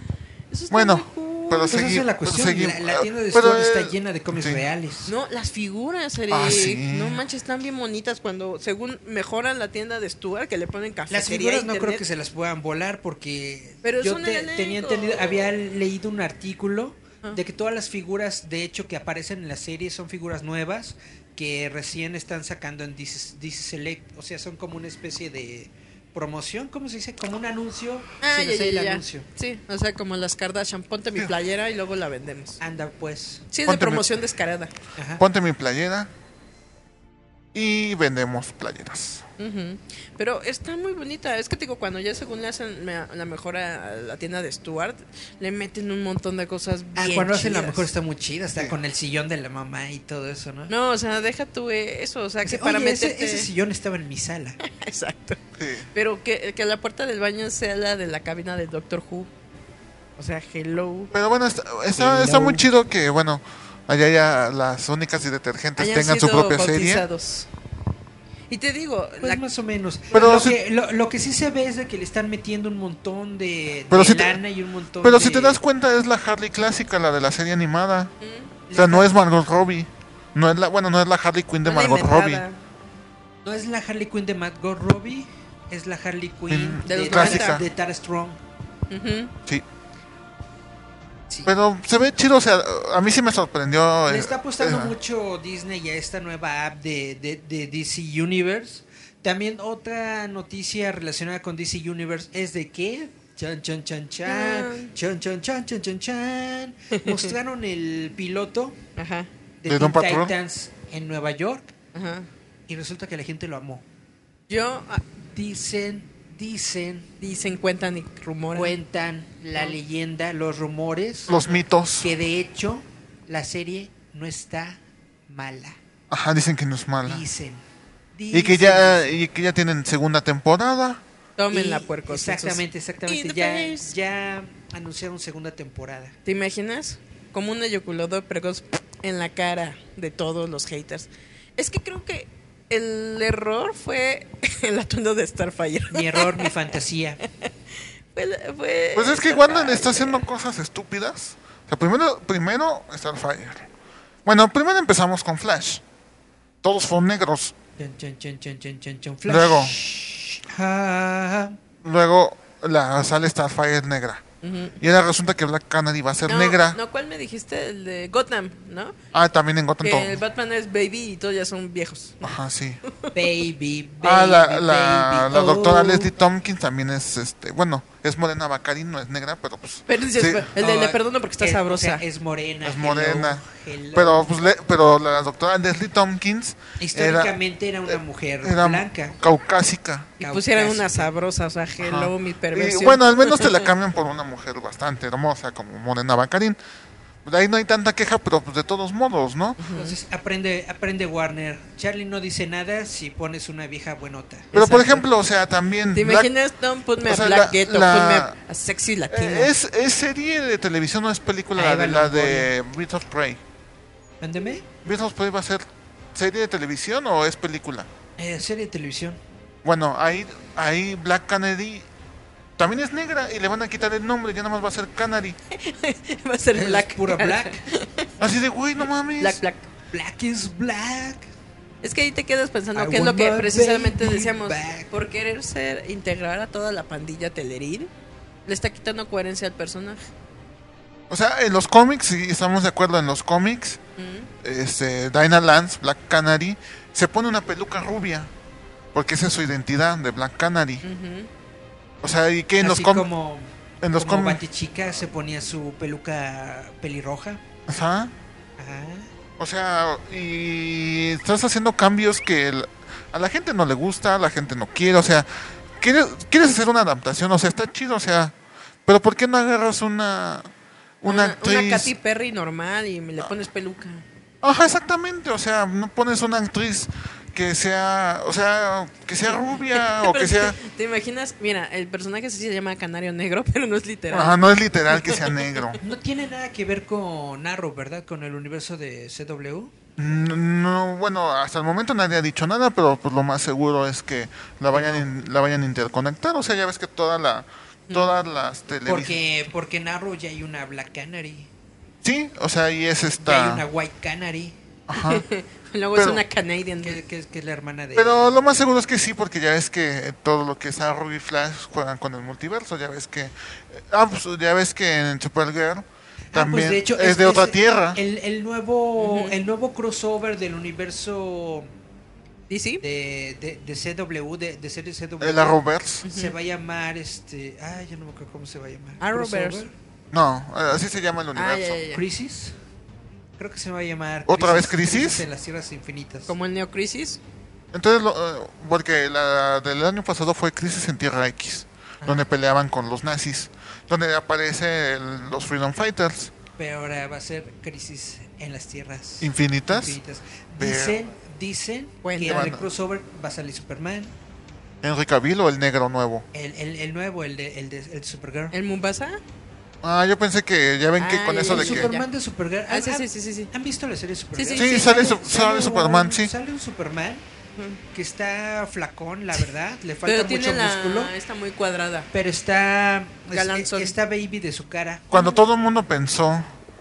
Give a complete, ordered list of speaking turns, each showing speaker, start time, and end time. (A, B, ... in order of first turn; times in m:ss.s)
0:00.5-0:01.8 A
0:00.7-0:04.6 B
0:01.7-0:05.1 C
0:05.1-0:12.0 A
0:06.3-0:07.2 B
0:11.1-0:29.3 C
0:13.8-0:15.4 A
0:28.2-0:32.6 A
0:32.6-0:33.5 C
0:33.5-0:34.7 A
0:33.7-0:34.1 B
0:35.0-0:35.2 C
0:35.2-0:36.1 B
0:37.5-0:39.2 B
0:39.4-0:47.9 A
0:47.0-0:50.7 C
0:50.7-0:53.5 A
0:52.4-0:54.6 C
0:54.7-0:55.4 A
0:55.6-0:55.9 B
0:55.9-0:59.3 A
1:00.2-1:01.1 A
1:01.1-1:07.1 B
1:02.0-1:02.7 C
1:05.8-1:07.5 A
1:08.5-1:09.4 A
1:09.2-1:15.6 C
1:10.1-1:10.6 B
1:13.9-1:14.4 B
1:15.0-1:18.1 B
1:18.2-1:18.6 A
1:18.7-1:22.4 B
1:18.7-1:19.1 C
1:21.6-1:22.6 A
1:23.4-1:28.4 C
1:26.5-1:27.6 B
1:26.8-1:27.6 A
1:28.9-1:29.3 A
1:31.5-1:35.0 B
1:34.1-1:48.8 C
1:44.3-1:44.9 A
1:46.9-1:47.3 A
1:49.0-1:49.3 A
1:49.6-1:51.7 C
1:49.7-1:50.3 B
1:51.9-1:52.3 A
1:52.7-1:53.8 C
1:54.5-1:55.0 A
1:55.3-1:57.1 C
1:57.2-1:58.7 A
1:58.5-2:01.5 C
2:01.3-2:02.1 B
2:02.0-2:05.8 C
2:06.1-2:07.2 B
2:07.0-2:07.6 C
2:08.2-2:09.2 C
2:08.3-2:11.0 B
2:11.4-2:13.9 A
2:11.5-2:16.2 C
2:16.3-2:26.5 A
2:25.9-2:27.2 C
2:28.1-2:30.3 A
2:29.0-2:33.7 B
2:34.3-2:35.8 B
2:36.6-2:37.6 B
2:37.8-2:41.6 C
2:39.3-2:39.8 B
2:41.8-2:44.2 B
2:44.4-2:44.8 A
2:44.8-2:46.8 B
2:46.3-2:49.0 A
2:49.1-2:50.2 B
2:49.8-2:52.4 A
2:52.2-2:52.8 B
2:52.9-2:53.2 A
2:53.1-2:56.1 C
2:54.0-3:00.5 B
2:59.9-3:02.0 A
3:00.6-3:04.3 C
3:02.6-3:03.4 B
3:03.9-3:07.4 B
3:06.8-3:09.2 C
3:07.9-3:10.1 B
3:10.2-3:11.1 C
3:10.2-3:13.7 A
3:11.8-3:16.6 B
3:17.2-3:19.6 B
3:19.6-3:20.0 A
3:19.7-3:24.5 C
3:24.5-3:25.0 A
3:24.5-3:26.3 B
3:25.9-3:29.5 A
3:27.0-3:28.4 B
3:29.1-3:33.4 B
3:31.6-3:32.5 C
3:34.2-3:34.7 C
3:34.8-3:37.9 B
3:38.2-3:39.2 C
3:39.6-3:41.9 B
3:42.6-3:45.4 B
3:45.5-3:48.1 A
3:46.6-3:47.6 C
3:48.2-3:49.4 B
3:49.2-3:49.7 A
3:49.9-3:51.3 C
3:51.8-3:57.9 A
3:52.8-3:54.9 C
3:58.5-4:00.0 A
4:01.1-4:03.8 B
4:04.0-4:04.3 A
4:04.4-4:08.3 B
4:08.9-4:10.8 B
4:10.8-4:11.3 A
4:12.0-4:13.1 B
4:12.6-4:17.4 C
4:13.8-4:14.4 B
4:17.7-4:18.1 B
4:18.6-4:19.1 C
4:19.4-4:28.3 B
4:28.9-4:30.5 B
4:31.0-4:31.9 B
4:31.1-4:34.0 A
4:34.4-4:40.6 B
4:39.7-4:44.4 A
4:44.1-4:45.8 B
4:44.9-4:45.3 A
4:45.8-4:49.7 C
4:50.0-4:59.2 B
4:54.7-4:55.1 C
4:58.9-5:01.5 C
5:02.0-5:03.6 B
5:03.2-5:04.6 C
5:04.9-5:05.2 B
5:05.0-5:07.0 A
5:06.0-5:06.2 B
5:06.8-5:08.2 C
5:08.0-5:18.0 B
5:16.3-5:21.7 C
5:19.0-5:19.4 A
5:22.5-5:22.8 A
5:22.8-5:29.7 C
5:25.2-5:26.0 B
5:26.0-5:26.3 A
5:29.0-5:29.6 A
5:30.1-5:31.8 B
5:31.4-5:32.0 A
5:31.9-5:32.6 C
5:33.4-5:36.3 C
5:34.3-5:35.2 B
5:36.3-5:37.2 A
5:37.7-5:46.3 B
5:42.0-5:42.3 C
5:46.6-5:54.1 C
5:49.2-5:50.0 B
5:50.6-5:51.0 B
5:52.0-5:52.6 A
5:52.3-5:52.6 B
5:54.8-5:56.2 B
5:56.3-5:58.5 C
5:58.5-5:59.2 A
5:59.8-6:01.9 B
6:01.0-6:02.1 A
6:01.5-6:07.2 C
6:02.7-6:03.5 A
6:04.4-6:05.0 A
6:04.6-6:06.3 B
6:07.9-6:11.1 C
6:10.1-6:12.1 A
6:12.1-6:15.1 C
6:13.3-6:14.0 A
6:15.1-6:16.5 B
6:15.1-6:15.4 A